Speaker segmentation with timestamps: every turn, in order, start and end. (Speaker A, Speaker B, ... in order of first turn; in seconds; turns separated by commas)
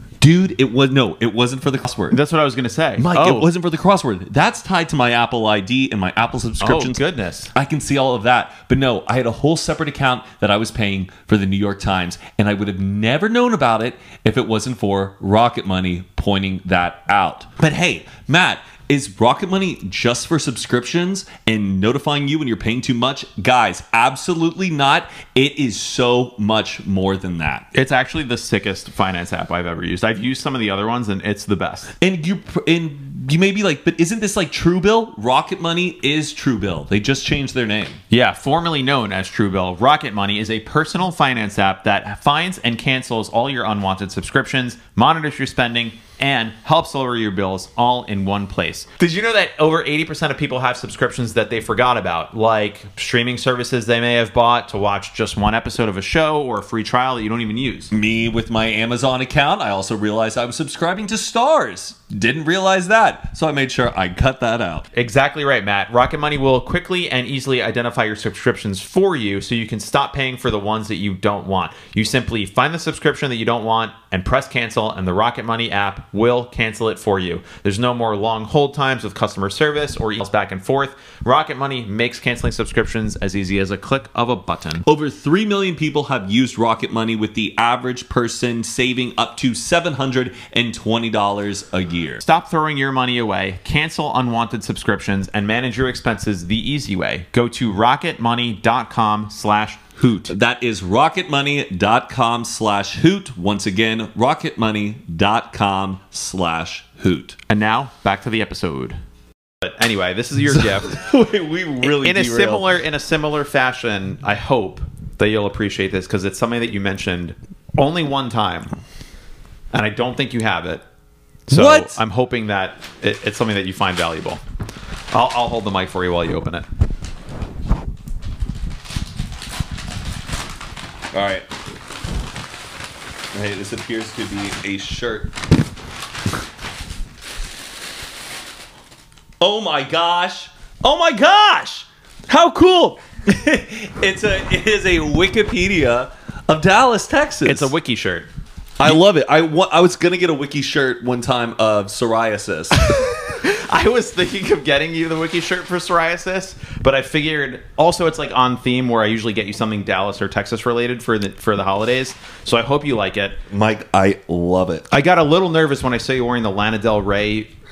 Speaker A: 0.2-2.2, Speaker B: 2.1-3.5, Speaker A: 3.0-7.0, Speaker B: 6.6-7.5, Speaker A: 7.5-27.7, Speaker B: 27.7-31.9, Speaker A: 32.0-38.0, Speaker B: 38.1-57.9, Speaker A: 57.9-64.9, Speaker B: 64.9-84.8, Speaker A: 84.9-92.2, Speaker B: 92.2-100.3, Speaker A: 100.3-107.4, Speaker B: 107.5-109.0, Speaker B: 109.6-111.0, Speaker A: 110.5-112.7, Speaker B: 111.8-118.8, Speaker B: 119.7-120.8, Speaker B: 121.5-124.4, Speaker A: 121.5-122.0, Speaker B: 125.1-126.7, Speaker A: 131.1-131.5, Speaker A: 133.3-135.3, Speaker A: 139.4-147.7, Speaker B: 147.4-148.3, Speaker A: 148.8-153.0, Speaker B: 152.8-163.4, Speaker A: 163.5-164.9, Speaker B: 164.9-167.5